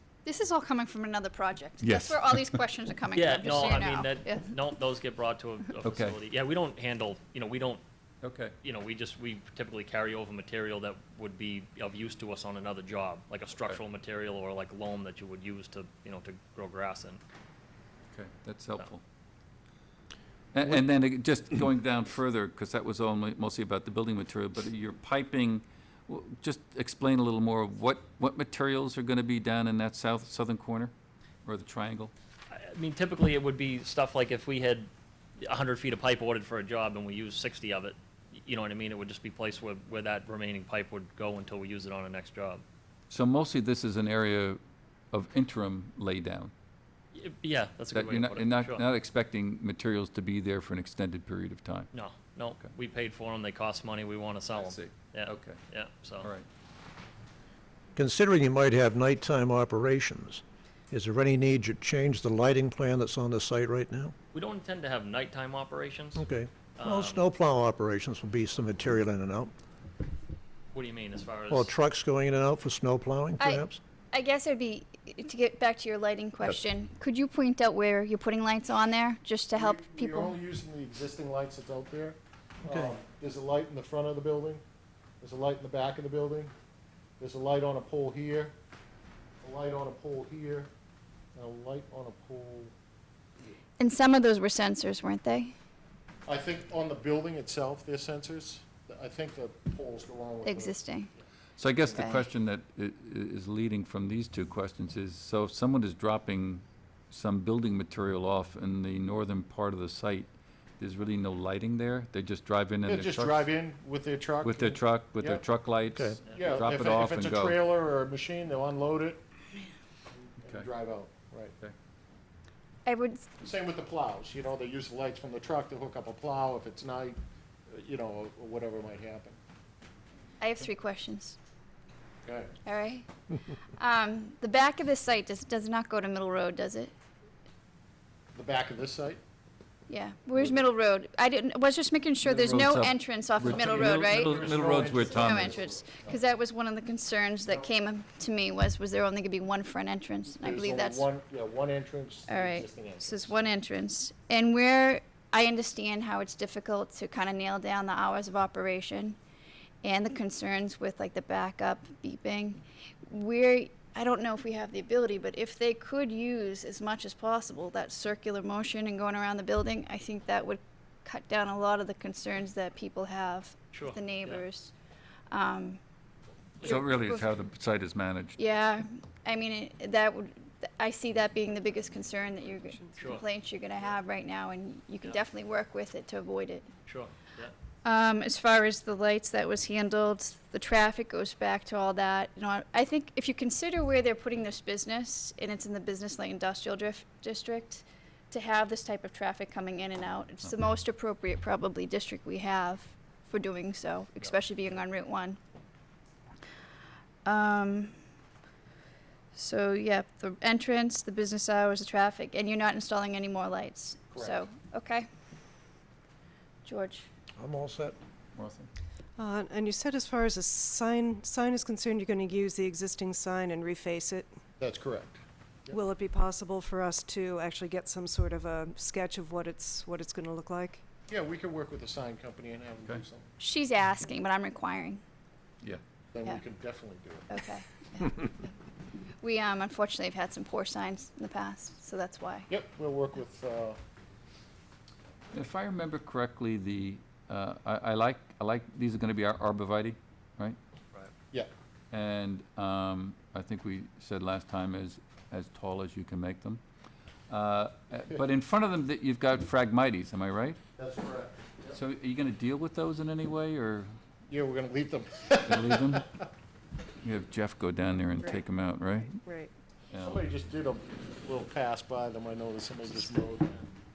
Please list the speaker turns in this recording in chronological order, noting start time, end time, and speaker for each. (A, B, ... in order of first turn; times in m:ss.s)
0:00.2-0:04.5 A
0:01.8-0:02.6 B
0:03.2-0:07.8 C
0:05.8-0:06.2 B
0:08.2-0:08.6 B
0:08.6-0:17.2 C
0:18.1-0:19.0 B
0:20.5-0:30.9 B
0:31.4-0:32.1 B
0:32.5-0:42.6 C
0:43.1-0:44.6 B
0:45.1-0:46.5 B
0:47.1-0:48.8 C
0:47.9-0:51.9 B
0:51.9-0:56.3 C
0:54.6-0:55.6 B
0:58.0-1:04.1 D
1:04.3-1:06.2 C
1:06.2-1:09.5 D
1:06.8-1:07.2 C
1:10.7-1:11.7 C
1:11.5-1:13.8 D
1:13.4-1:20.4 A
1:19.5-1:24.6 E
1:22.6-1:22.9 D
1:25.2-1:26.5 E
1:27.2-1:28.6 E
1:29.4-1:30.7 E
1:31.4-1:32.7 E
1:33.8-1:35.5 A
1:36.3-1:40.8 E
1:40.4-1:41.1 A
1:41.6-1:50.3 B
1:42.0-1:42.3 A
1:50.8-1:53.5 B
1:52.9-1:55.4 E
1:54.4-1:57.6 B
1:55.9-1:56.2 D
1:56.3-1:56.7 C
1:56.3-1:59.2 E
2:00.4-2:01.6 E
2:00.4-2:00.7 B
2:02.9-2:03.4 A
2:03.4-2:07.2 E
2:07.7-2:09.4 E
2:10.4-2:11.4 A
2:12.2-2:12.5 E
2:12.6-2:13.1 A
2:13.8-2:16.9 A
2:18.3-2:19.2 E
2:19.9-2:24.5 A
2:20.4-2:20.6 E
2:22.2-2:25.6 B
2:23.5-2:26.2 E
2:25.0-2:31.1 A
2:30.4-2:33.4 E
2:32.3-2:39.2 A
2:39.8-2:54.7 A
2:53.7-2:54.4 C
2:55.3-2:55.8 A
2:56.6-2:57.3 A
2:56.6-2:58.4 B
2:58.4-3:06.7 A
3:02.0-3:03.2 F
3:03.0-3:03.2 C
3:06.9-3:07.5 C
3:07.8-3:25.4 A
3:27.2-3:27.9 A
3:29.3-3:35.0 A
3:34.1-3:34.4 E
3:36.6-3:37.1 A
3:37.4-3:38.0 D
3:38.4-3:38.7 B
3:39.2-3:44.3 F
3:44.6-3:45.8 E
3:45.7-3:50.8 F
3:51.1-3:53.3 E
3:53.4-3:55.0 A
3:56.1-3:57.3 E
3:57.3-3:58.4 A
3:59.2-4:02.5 A
4:02.5-4:03.8 E
4:05.3-4:10.6 B
4:11.9-4:16.6 B
4:17.3-4:20.6 B
4:20.8-4:21.8 E
4:21.7-4:23.9 B
4:24.3-4:26.0 E
4:25.4-4:26.1 B
4:27.0-4:29.2 B
4:29.2-4:29.5 F
4:29.9-4:30.2 B
4:29.9-4:33.6 E